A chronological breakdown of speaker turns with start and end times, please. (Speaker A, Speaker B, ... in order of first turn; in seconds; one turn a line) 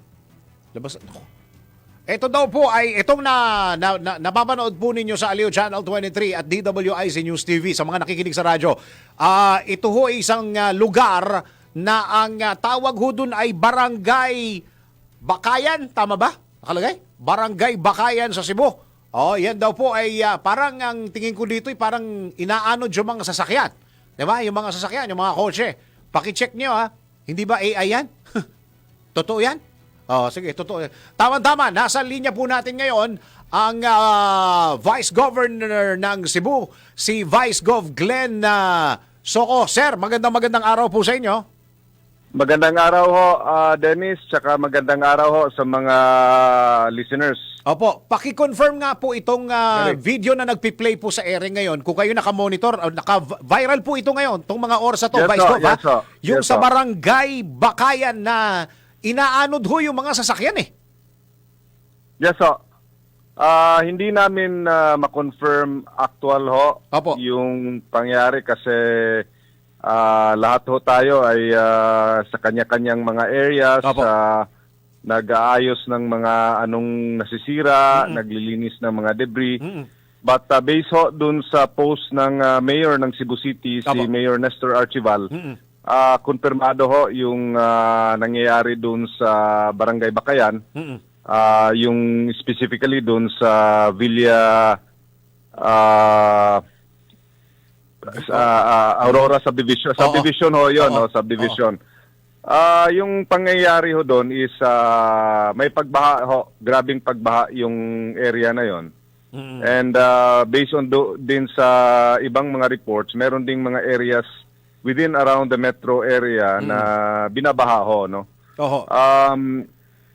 Speaker A: 0.7-1.3
Speaker A: 2.1-14.6
Speaker A: 15.2-28.4
Speaker A: 29.1-41.4
Speaker B: 42.3-47.4
Speaker A: 47.6-58.4
Speaker B: 55.1-56.7
Speaker A: 59.0-60.7
Speaker B: 62.2-62.6
Speaker B: 63.4-69.2
Speaker A: 66.9-67.2
Speaker B: 69.9-74.5
Speaker A: 73.8-74.1
Speaker B: 75.1-79.6
Speaker A: 79.6-79.9
Speaker B: 80.2-85.3
Speaker A: 85.3-85.6
Speaker B: 85.9-90.6
Speaker B: 91.3-94.8
Speaker B: 95.6-96.6
Speaker B: 98.0-101.8
Speaker A: 98.1-98.4
Speaker A: 100.0-100.2
Speaker A: 100.8-101.5
Speaker B: 102.5-108.9
Speaker A: 109.3-109.7
Speaker B: 109.6-114.2
Speaker B: 114.8-118.2
Speaker A: 116.6-116.9
Speaker A: 118.6-118.9
Speaker B: 118.9-119.7